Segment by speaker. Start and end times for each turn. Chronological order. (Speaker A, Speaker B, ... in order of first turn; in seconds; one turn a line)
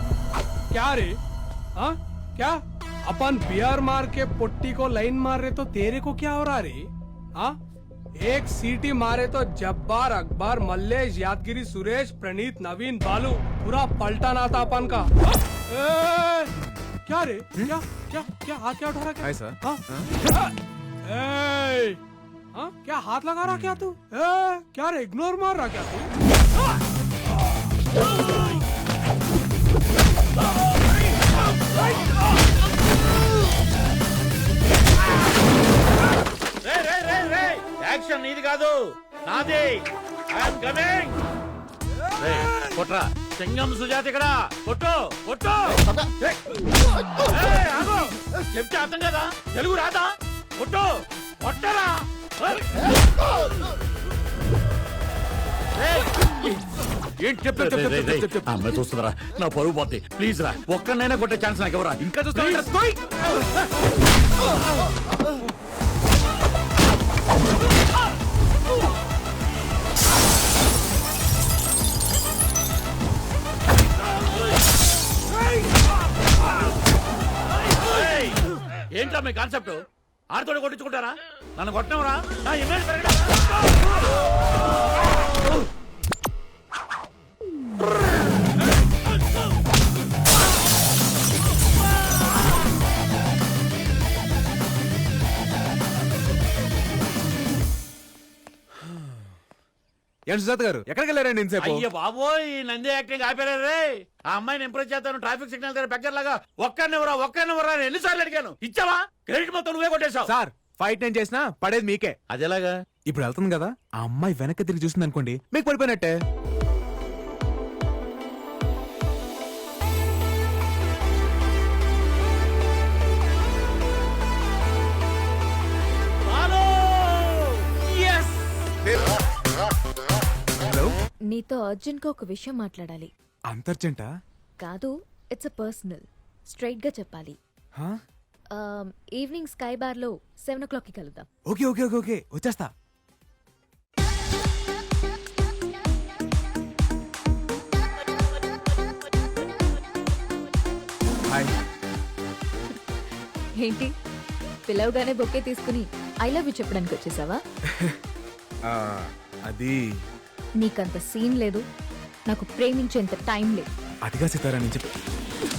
Speaker A: 0.7-1.1
Speaker A: 1.8-6.8
Speaker A: 8.2-16.5
Speaker A: 17.1-20.5
Speaker B: 19.2-20.1
Speaker A: 21.1-22.0
Speaker A: 22.5-26.1
Speaker B: 23.4-23.9
Speaker C: 36.6-41.1
Speaker C: 42.2-46.4
Speaker C: 47.3-52.7
Speaker C: 55.8-56.1
Speaker B: 57.2-58.8
Speaker C: 57.5-62.6
Speaker B: 62.0-63.0
Speaker C: 77.8-78.4
Speaker C: 78.9-83.4
Speaker B: 100.3-101.8
Speaker C: 101.6-110.3
Speaker B: 110.2-112.1
Speaker C: 112.3-112.7
Speaker B: 113.1-116.1
Speaker C: 126.3-127.5
Speaker B: 127.9-128.8
Speaker B: 130.6-130.9
Speaker D: 131.3-133.1
Speaker B: 133.5-134.1
Speaker D: 134.6-137.4
Speaker D: 138.5-141.3
Speaker B: 141.4-142.7
Speaker D: 153.6-153.9
Speaker D: 154.7-157.4
Speaker B: 157.7-158.0
Speaker B: 158.7-159.8
Speaker D: 160.6-161.6
Speaker D: 162.2-163.7
Speaker B: 164.0-164.8